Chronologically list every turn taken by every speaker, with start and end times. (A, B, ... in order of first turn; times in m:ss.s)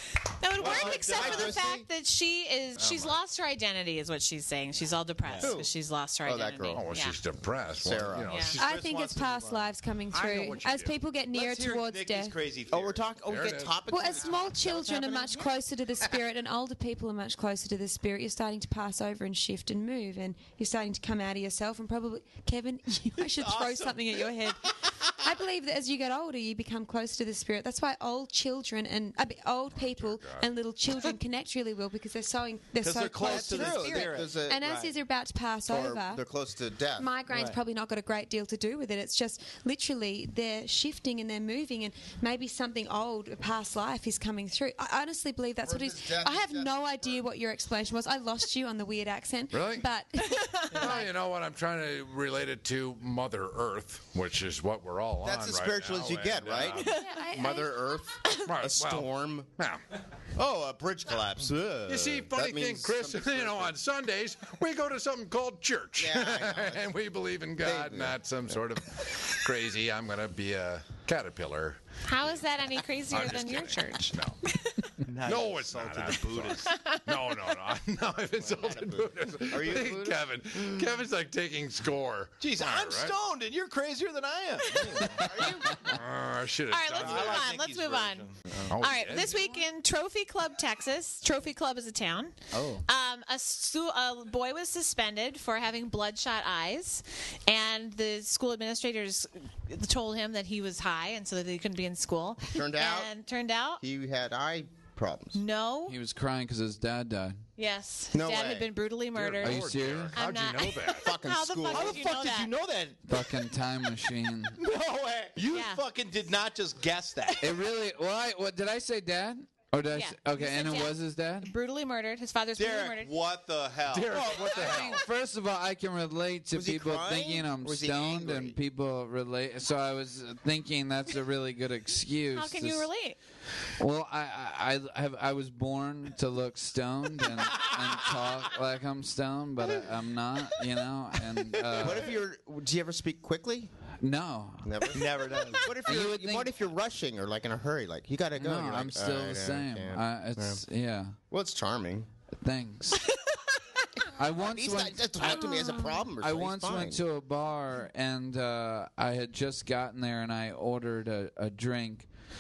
0:00.3-0:07.2 A
0:00.6-0:01.6 B
0:00.6-0:01.9 C
0:02.8-0:03.2 D
0:05.2-0:05.6 B
0:05.4-0:05.7 C
0:06.2-0:06.9 C
0:06.7-0:08.7 D
0:07.8-0:08.4 C
0:08.3-0:08.6 A
0:08.5-0:10.5 B
0:08.6-0:12.4 E
0:10.1-0:11.0 D
0:11.3-0:13.1 B
0:12.7-0:15.5 C
0:13.3-0:13.8 D
0:13.9-0:36.2 E
0:23.2-0:25.0 B
0:29.8-0:30.5 D
0:32.8-0:34.9 B
0:33.2-0:34.7 C
0:35.7-0:37.1 C
0:37.0-0:51.1 E
0:37.3-0:37.6 B
0:45.6-0:47.2 C
0:49.5-0:49.9 D
0:50.3-0:50.9 A
0:50.7-0:57.0 D
0:55.2-0:59.5 C
0:56.7-0:57.2 A
0:56.8-0:57.9 E
0:58.4-0:59.8 D
1:00.4-1:03.7 C
1:01.9-1:12.4 D
1:06.0-1:06.9 C
1:07.6-1:08.6 C
1:12.0-1:14.9 A
1:13.1-1:14.4 D
1:15.0-1:16.8 B
1:15.2-1:23.2 D
1:16.7-1:17.6 A
1:18.4-1:20.2 C
1:22.4-1:25.5 B
1:25.1-1:25.8 C
1:25.8-1:27.5 D
1:26.7-1:43.8 A
1:26.9-1:28.4 B
1:28.7-1:29.5 D
1:32.5-1:32.8 F
1:42.4-1:43.1 C
1:43.8-1:45.4 C
1:45.4-1:46.0 A
1:45.9-1:47.4 F
1:47.6-1:52.5 A
1:48.1-1:48.7 C
1:49.1-1:51.1 D
1:49.4-1:50.2 F
1:51.0-1:52.0 C
1:51.7-1:53.0 B
1:53.1-1:54.6 F
1:54.6-1:57.6 B
1:55.5-1:55.8 A
1:57.4-2:01.5 F
1:59.9-2:03.1 A
2:02.6-2:04.8 B
2:03.9-2:05.0 D
2:04.3-2:12.9 F
2:06.5-2:08.6 C
2:12.3-2:13.2 A
2:13.8-2:22.1 F
2:21.5-2:22.1 B
2:21.8-2:23.7 C
2:24.0-2:24.9 F
2:24.6-2:30.6 C
2:24.9-2:25.7 B
2:25.8-2:26.5 F
2:28.4-2:31.2 F
2:31.3-2:32.1 C
2:32.4-2:33.0 F
2:34.2-2:42.1 F
2:34.4-2:37.0 C
2:35.4-2:36.0 E